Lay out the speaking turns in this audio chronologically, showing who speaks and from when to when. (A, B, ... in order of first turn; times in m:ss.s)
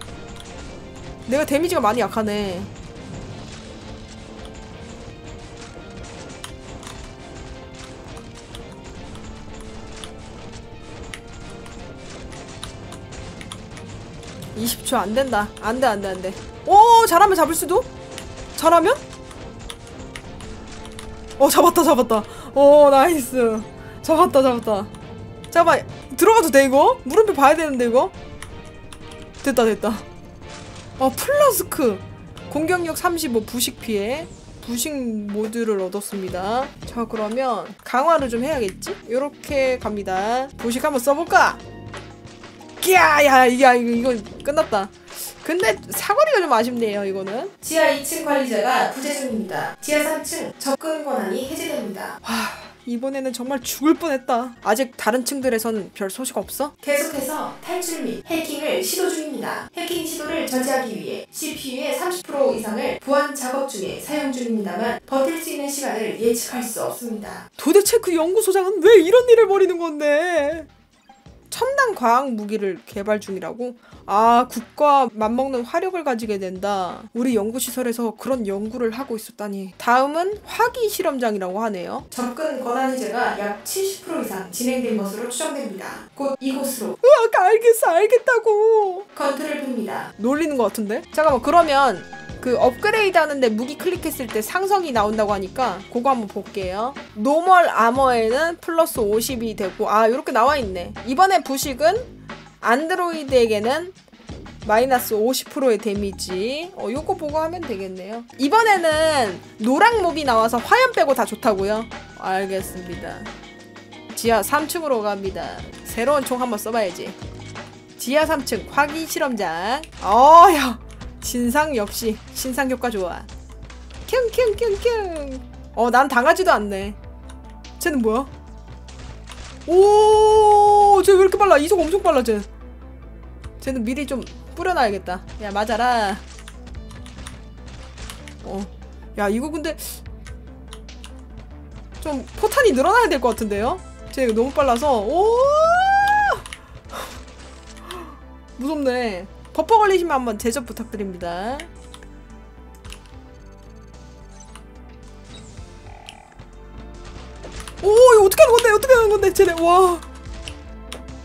0:01.3-0:02.7 A
0:14.5-0:17.9 A
0:18.5-0:19.0 A
0:21.4-0:24.9 A
0:25.5-0:28.1 A
0:29.4-0:30.0 A
0:31.0-0:41.6 A
0:42.8-0:47.5 A
0:47.6-0:52.2 B
0:52.2-0:56.7 A
0:56.8-1:07.4 B
1:07.6-1:10.7 A
1:11.5-1:22.1 A
1:22.1-1:27.0 B
1:27.0-1:29.1 A
1:29.1-1:30.1 B
1:30.2-1:43.9 A
1:44.6-1:53.3 A
1:54.1-1:57.2 A
1:58.0-2:03.3 A
2:04.1-2:07.0 A
2:07.8-2:08.3 A
2:09.6-2:12.5 A
2:13.6-2:16.2 A
2:18.4-2:20.0 A
2:22.0-2:27.1 A
2:27.8-2:31.7 A
2:37.8-2:40.0 A